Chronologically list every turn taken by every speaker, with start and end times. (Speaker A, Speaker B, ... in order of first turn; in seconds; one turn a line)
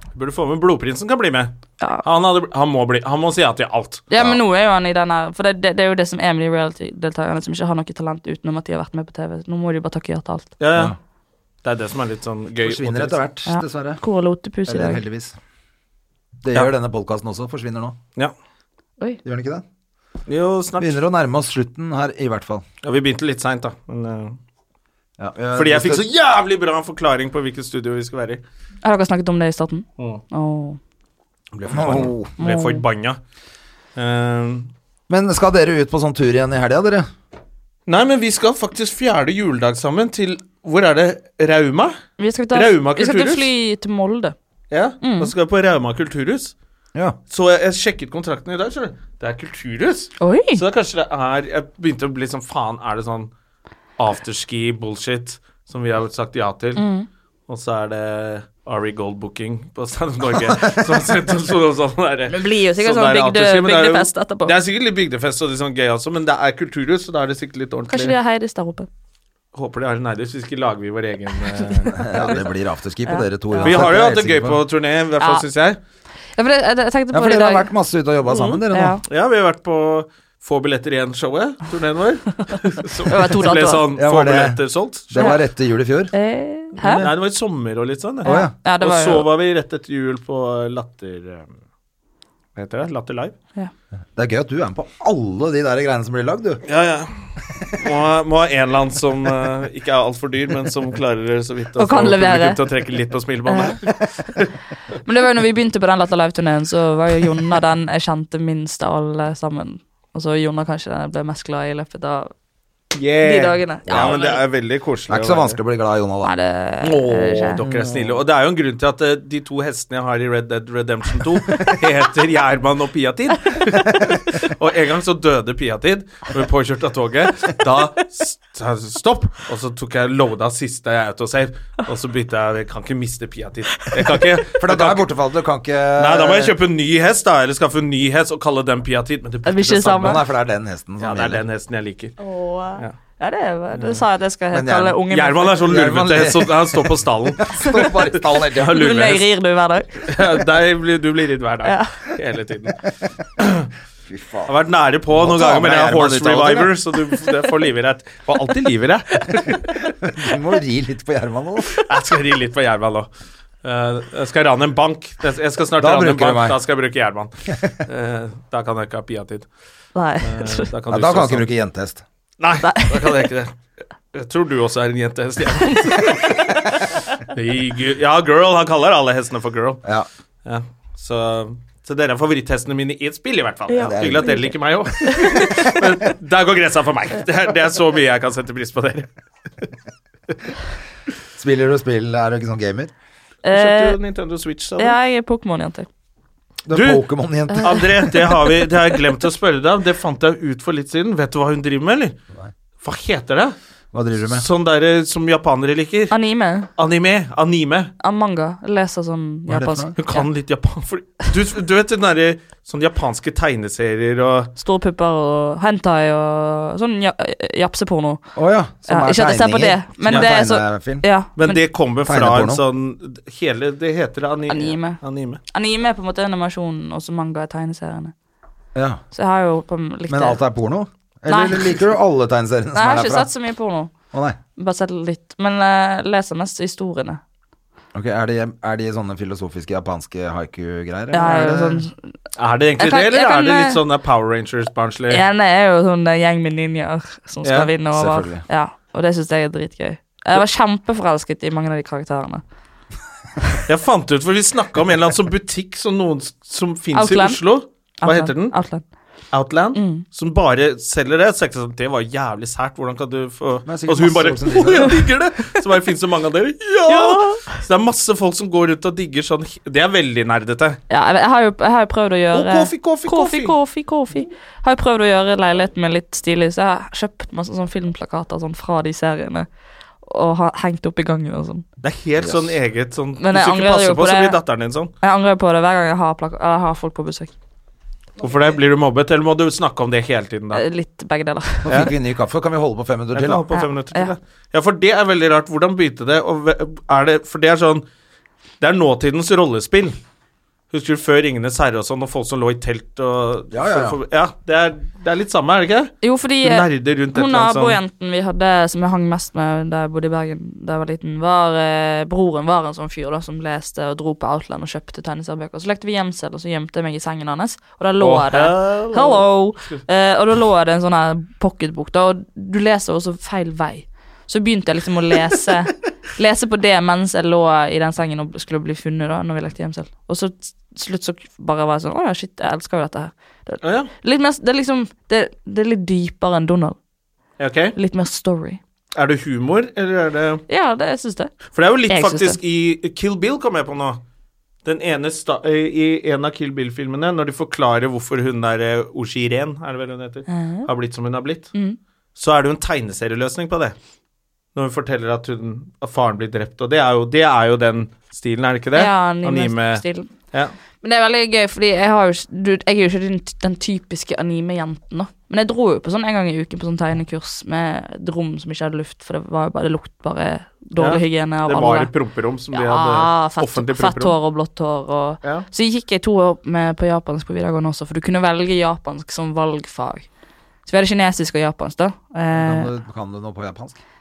Speaker A: 0.1-4.0
Speaker B: 4.1-10.5
Speaker A: 10.6-10.9
Speaker A: 11.6-13.2
Speaker C: 12.6-14.0
Speaker B: 13.5-15.0
Speaker C: 14.7-15.4
Speaker C: 16.4-18.0
Speaker C: 19.2-19.6
Speaker A: 20.3-21.0
Speaker C: 20.8-22.6
Speaker A: 22.8-24.4
Speaker C: 25.2-26.1
Speaker A: 25.5-28.4
Speaker B: 28.8-30.8
Speaker A: 30.0-30.2
Speaker A: 31.5-33.2
Speaker C: 31.7-32.3
Speaker B: 32.4-32.8
Speaker A: 34.0-34.7
Speaker C: 35.1-37.1
Speaker A: 37.9-42.0
Speaker B: 42.2-44.4
Speaker A: 42.5-43.5
Speaker A: 44.7-46.5
Speaker B: 45.0-45.3
Speaker A: 47.3-53.3
Speaker B: 50.2-50.6
Speaker A: 54.0-56.8
Speaker B: 56.8-57.1
Speaker A: 57.5-68.1
Speaker B: 62.3-64.5
Speaker B: 67.9-68.9
Speaker A: 69.5-72.4
Speaker C: 72.0-74.6
Speaker B: 73.1-73.9
Speaker A: 73.6-75.8
Speaker B: 76.3-77.7
Speaker C: 77.1-79.0
Speaker B: 78.3-79.0
Speaker A: 79.0-85.4
Speaker B: 83.1-83.9
Speaker C: 83.9-86.1
Speaker B: 86.1-87.1
Speaker A: 86.8-91.5
Speaker C: 86.8-87.2
Speaker C: 88.2-88.5
Speaker B: 88.2-89.3
Speaker A: 92.6-93.3
Speaker C: 94.2-96.6
Speaker A: 96.7-97.1
Speaker A: 97.7-104.5
Speaker B: 101.8-102.6
Speaker B: 103.5-103.8
Speaker B: 105.0-112.3
Speaker A: 112.9-115.6
Speaker B: 113.2-114.4
Speaker C: 113.9-114.2
Speaker C: 115.1-116.3
Speaker B: 116.2-117.6
Speaker A: 116.8-135.1
Speaker C: 117.6-118.2
Speaker C: 134.6-136.6
Speaker A: 136.0-140.2
Speaker B: 139.4-140.2
Speaker C: 140.0-141.4
Speaker A: 141.0-142.2
Speaker B: 142.2-145.6
Speaker A: 143.8-144.0
Speaker C: 144.5-145.0
Speaker A: 145.1-149.3
Speaker C: 145.6-148.9
Speaker B: 148.7-150.1
Speaker A: 150.1-152.8
Speaker B: 151.6-151.9
Speaker A: 153.4-153.7
Speaker C: 154.1-154.5
Speaker A: 154.5-159.8
Speaker C: 155.1-156.7
Speaker C: 160.0-161.8
Speaker A: 161.8-163.1
Speaker A: 163.6-169.5
Speaker C: 165.8-166.6
Speaker B: 169.9-170.7
Speaker A: 170.2-171.5
Speaker C: 170.9-172.0
Speaker A: 172.4-173.5
Speaker B: 172.6-173.3
Speaker A: 174.1-179.8
Speaker A: 180.4-189.1
Speaker B: 183.7-184.5
Speaker C: 183.8-184.4
Speaker B: 185.0-185.7
Speaker C: 191.4-192.9
Speaker B: 193.4-194.0
Speaker A: 193.5-195.0
Speaker B: 194.8-195.9
Speaker C: 196.7-197.9
Speaker A: 196.7-197.0
Speaker B: 197.5-198.7
Speaker A: 197.6-202.2
Speaker A: 202.8-203.6
Speaker C: 203.9-204.4
Speaker A: 204.3-206.2
Speaker B: 206.1-206.7
Speaker A: 206.8-207.9
Speaker B: 208.0-210.3
Speaker C: 209.5-209.9
Speaker A: 210.0-214.5
Speaker B: 214.6-218.2
Speaker C: 218.3-221.1
Speaker B: 218.9-221.6
Speaker A: 221.4-225.4
Speaker C: 222.1-222.6
Speaker B: 224.5-225.0
Speaker B: 225.5-228.1
Speaker C: 228.8-229.0
Speaker B: 229.1-230.4
Speaker C: 230.1-233.3
Speaker B: 231.3-231.8
Speaker B: 232.8-233.9
Speaker C: 234.1-234.4
Speaker B: 234.6-237.2
Speaker C: 237.9-241.9
Speaker B: 241.1-242.0
Speaker A: 242.4-245.2
Speaker B: 242.8-243.8
Speaker B: 245.1-252.4
Speaker A: 247.4-247.7
Speaker C: 247.9-248.4
Speaker A: 253.7-258.6
Speaker B: 256.9-257.4
Speaker B: 258.0-258.8
Speaker A: 259.3-270.8
Speaker B: 259.8-260.0
Speaker C: 263.7-265.1
Speaker B: 266.9-267.5
Speaker B: 270.9-279.5
Speaker A: 272.3-273.6
Speaker B: 280.0-281.6
Speaker A: 281.8-284.9
Speaker C: 282.2-282.5
Speaker B: 283.2-284.4
Speaker B: 285.0-287.3
Speaker A: 288.2-290.6
Speaker B: 290.5-291.7
Speaker C: 291.6-293.4
Speaker A: 291.7-291.9
Speaker A: 293.1-297.9
Speaker B: 293.5-294.1
Speaker A: 298.6-300.0
Speaker A: 300.7-307.8
Speaker C: 303.5-304.0
Speaker B: 306.0-336.8
Speaker A: 318.0-319.8
Speaker A: 333.6-333.9
Speaker A: 337.4-337.8
Speaker B: 337.8-338.6
Speaker A: 338.9-340.4
Speaker B: 340.5-341.3
Speaker A: 341.5-344.0
Speaker B: 341.9-342.4
Speaker A: 344.6-351.5
Speaker B: 350.3-350.7
Speaker A: 352.2-353.8
Speaker A: 354.6-360.5
Speaker B: 358.7-360.1
Speaker B: 360.8-371.9
Speaker A: 370.8-374.2
Speaker B: 372.5-380.1
Speaker A: 375.2-375.5
Speaker B: 380.6-382.7
Speaker C: 382.3-383.8